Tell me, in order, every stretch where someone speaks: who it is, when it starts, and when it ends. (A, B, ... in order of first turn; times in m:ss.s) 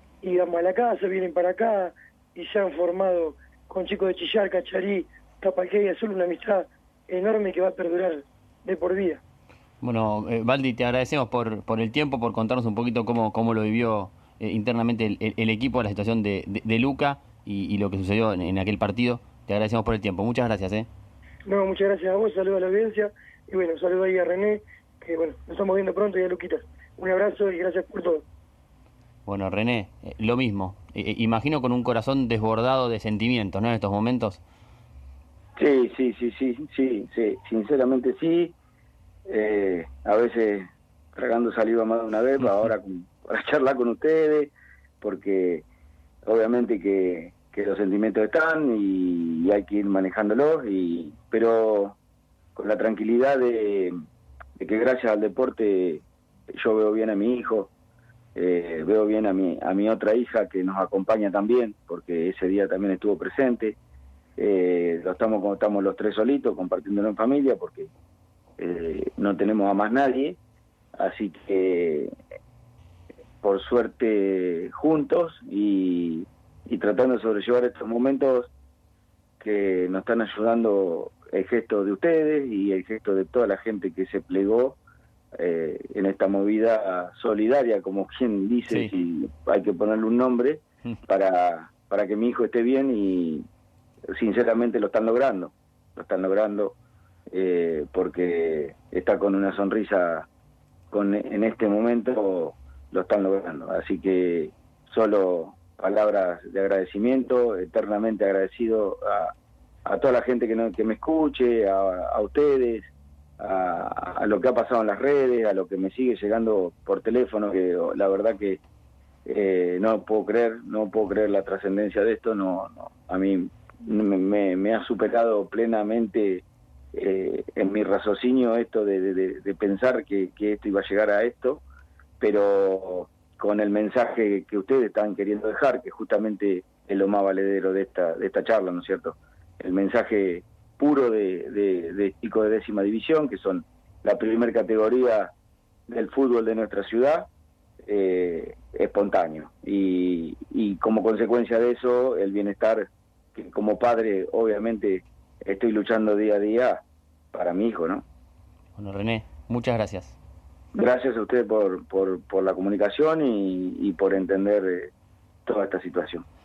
0:00.2-0:09.2 A
0:09.8-0:20.9 B
0:21.5-0:28.2 A
0:29.3-0:34.4 B
0:35.6-0:38.5 C
0:39.3-0:45.6 C
0:46.2-0:52.0 C
0:52.6-0:53.9 C
0:54.6-0:56.0 C
0:56.6-0:57.7 C
0:58.4-1:03.8 C
1:04.4-1:07.9 C
1:08.6-1:10.4 C
1:11.0-1:12.1 C
1:13.4-1:18.5 C
1:19.4-1:24.8 C
1:25.4-1:33.4 C
1:34.1-1:36.8 C
1:37.3-1:40.3 C
1:40.9-1:49.3 C
1:49.9-1:58.6 C
1:59.3-2:06.4 C
2:06.9-2:11.6 C
2:12.2-2:25.3 C
2:25.9-2:27.3 C
2:27.8-2:38.0 C
2:38.8-2:40.2 B
2:40.8-2:44.9 C
2:45.5-2:46.2 C